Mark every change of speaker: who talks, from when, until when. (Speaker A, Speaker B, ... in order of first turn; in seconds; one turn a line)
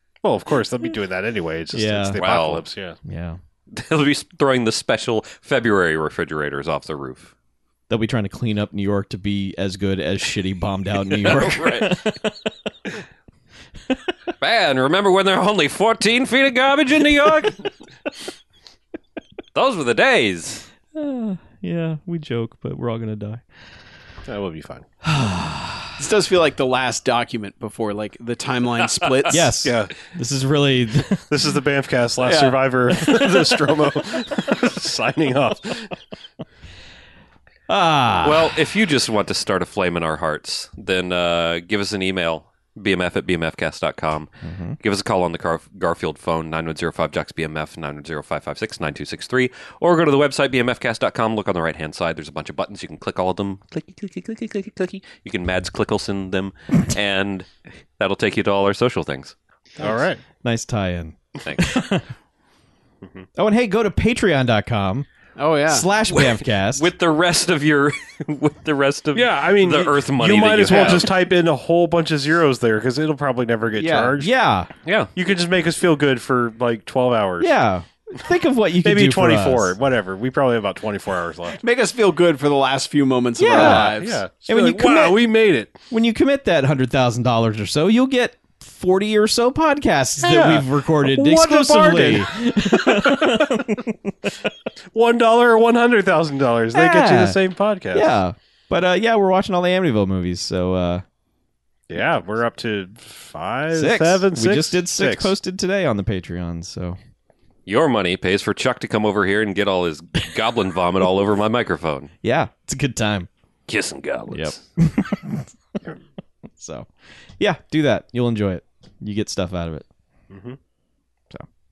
Speaker A: 0.2-3.0
Speaker B: 1.7-2.2
Speaker C: 2.2-2.6
Speaker B: 3.0-3.4
Speaker C: 3.7-7.3
Speaker B: 7.9-12.3
Speaker C: 11.2-12.0
Speaker C: 14.4-17.7
Speaker C: 19.5-20.6
Speaker B: 20.9-23.4
Speaker A: 24.2-24.9
Speaker B: 25.0-25.9
Speaker D: 26.0-29.6
Speaker B: 29.3-31.3
Speaker A: 29.6-29.9
Speaker A: 31.3-36.0
Speaker D: 32.2-32.6
Speaker B: 37.7-38.6
Speaker C: 38.2-59.4
Speaker B: 44.4-44.8
Speaker A: 59.8-60.2
Speaker B: 60.4-62.1
Speaker C: 61.4-61.8
Speaker B: 63.4-65.1
Speaker D: 65.4-65.9
Speaker B: 65.7-66.9
Speaker C: 66.1-71.1
Speaker A: 69.1-74.3
Speaker D: 70.7-71.0
Speaker D: 73.8-74.2
Speaker B: 74.2-74.7
Speaker C: 74.8-75.1
Speaker A: 75.2-77.5
Speaker B: 77.4-79.7
Speaker A: 78.8-81.6
Speaker D: 81.6-84.2
Speaker B: 83.4-83.9
Speaker A: 83.5-85.8
Speaker B: 84.5-85.2
Speaker B: 85.9-94.3
Speaker A: 90.2-93.7
Speaker A: 94.9-98.1
Speaker B: 96.7-97.4
Speaker B: 97.9-101.0
Speaker A: 101.9-105.3
Speaker B: 103.7-107.0
Speaker C: 107.7-112.1
Speaker B: 112.2-113.3
Speaker C: 113.7-114.6
Speaker B: 114.3-115.8
Speaker B: 116.6-119.9
Speaker A: 120.3-120.6